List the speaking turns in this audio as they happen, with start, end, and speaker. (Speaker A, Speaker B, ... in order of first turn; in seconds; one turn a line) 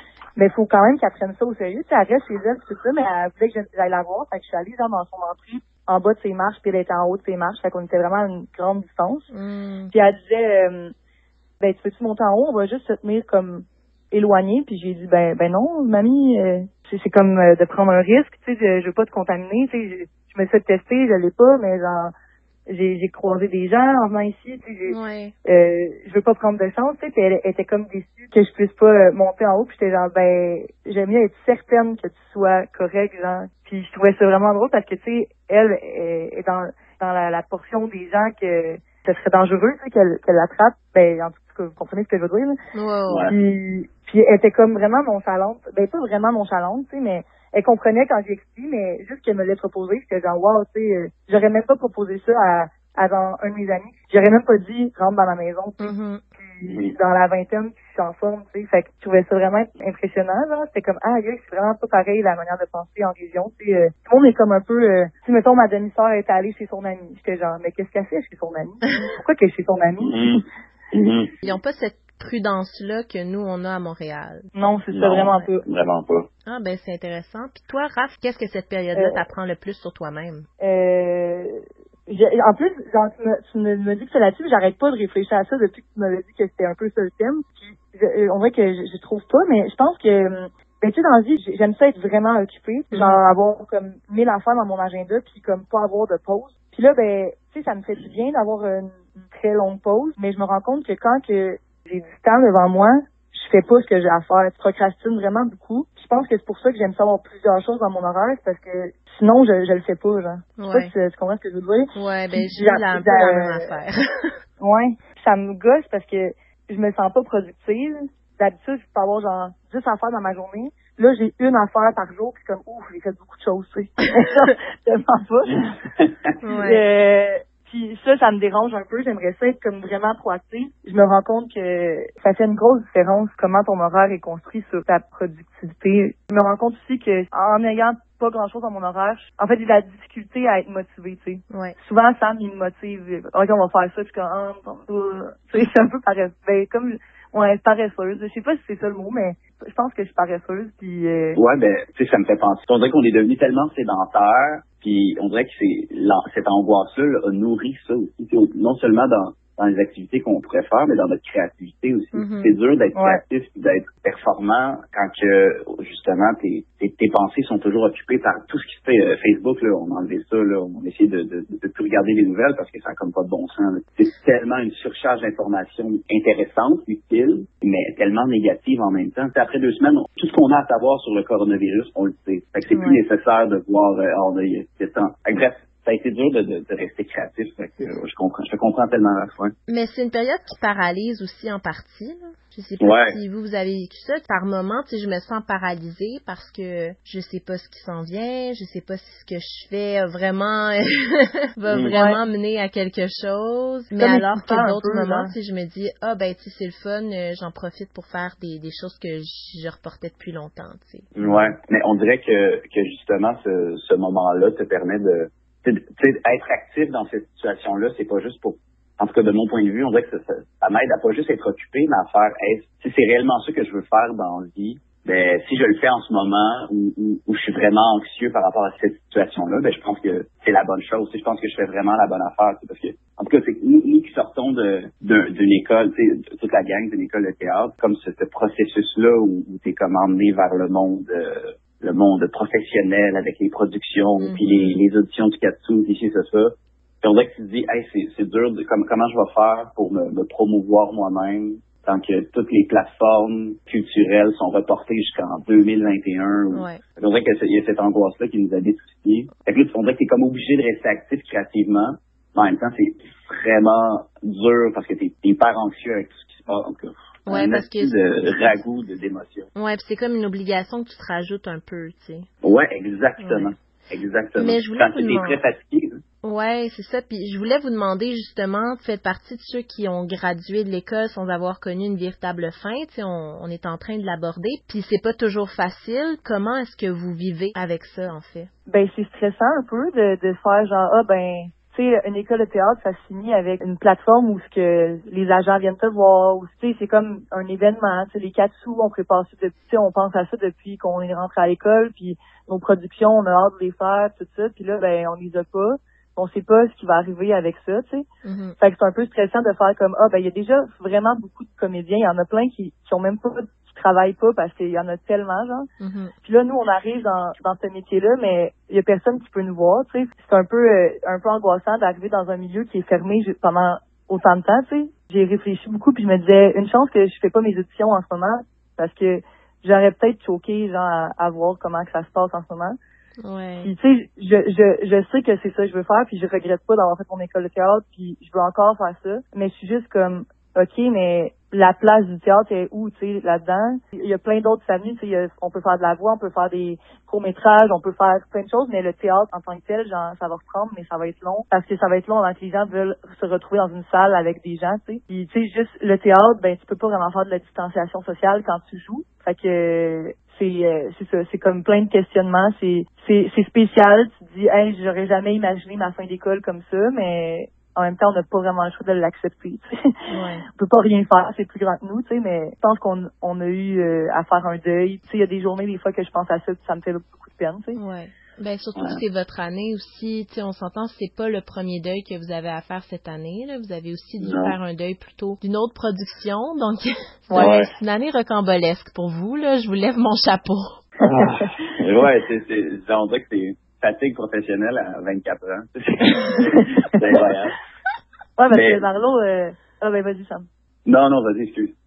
Speaker A: 0.4-9.3
Speaker B: 9.3-9.9
Speaker A: 9.9-10.9
Speaker A: 11.6-22.1
Speaker A: 22.7-42.6
Speaker B: 24.9-25.3
Speaker B: 42.7-43.3
Speaker C: 43.1-43.4
Speaker A: 43.3-70.2
Speaker B: 55.8-56.2
Speaker C: 56.6-57.0
Speaker C: 70.0-71.3
Speaker B: 71.4-74.5
Speaker A: 74.5-75.6
Speaker C: 74.9-76.3
Speaker B: 76.5-80.5
Speaker A: 80.6-113.8
Speaker B: 92.9-93.2
Speaker B: 110.6-110.9
Speaker B: 112.0-114.3
Speaker A: 114.6-125.8
Speaker B: 126.4-126.8
Speaker A: 126.6-151.4
Speaker B: 141.5-141.8
Speaker C: 151.4-189.5
Speaker B: 162.1-162.6
Speaker A: 162.9-163.2
Speaker B: 182.7-183.0
Speaker B: 189.7-211.1
Speaker C: 192.8-193.2
Speaker C: 201.7-201.9
Speaker A: 201.9-202.2
Speaker A: 204.0-205.3
Speaker C: 211.2-269.5
Speaker B: 244.2-244.8
Speaker B: 256.5-256.8
Speaker B: 267.3-267.9
Speaker B: 269.6-272.3
Speaker C: 272.4-276.0
Speaker B: 273.2-273.5
Speaker B: 274.4-275.4
Speaker B: 276.2-288.5
Speaker A: 288.7-308.1
Speaker B: 308.2-308.6
Speaker A: 308.6-315.7
Speaker B: 315.8-316.1
Speaker A: 316.2-332.8
Speaker B: 333.2-333.7
Speaker A: 333.6-369.7
Speaker B: 370.1-370.4
Speaker A: 370.6-377.8
Speaker B: 377.8-390.8
Speaker C: 378.8-379.0
Speaker C: 384.2-384.6
Speaker C: 387.4-387.7
Speaker C: 391.0-397.5
Speaker A: 391.2-391.5
Speaker A: 396.4-396.9
Speaker A: 398.4-400.5
Speaker C: 398.5-398.8
Speaker C: 400.9-401.7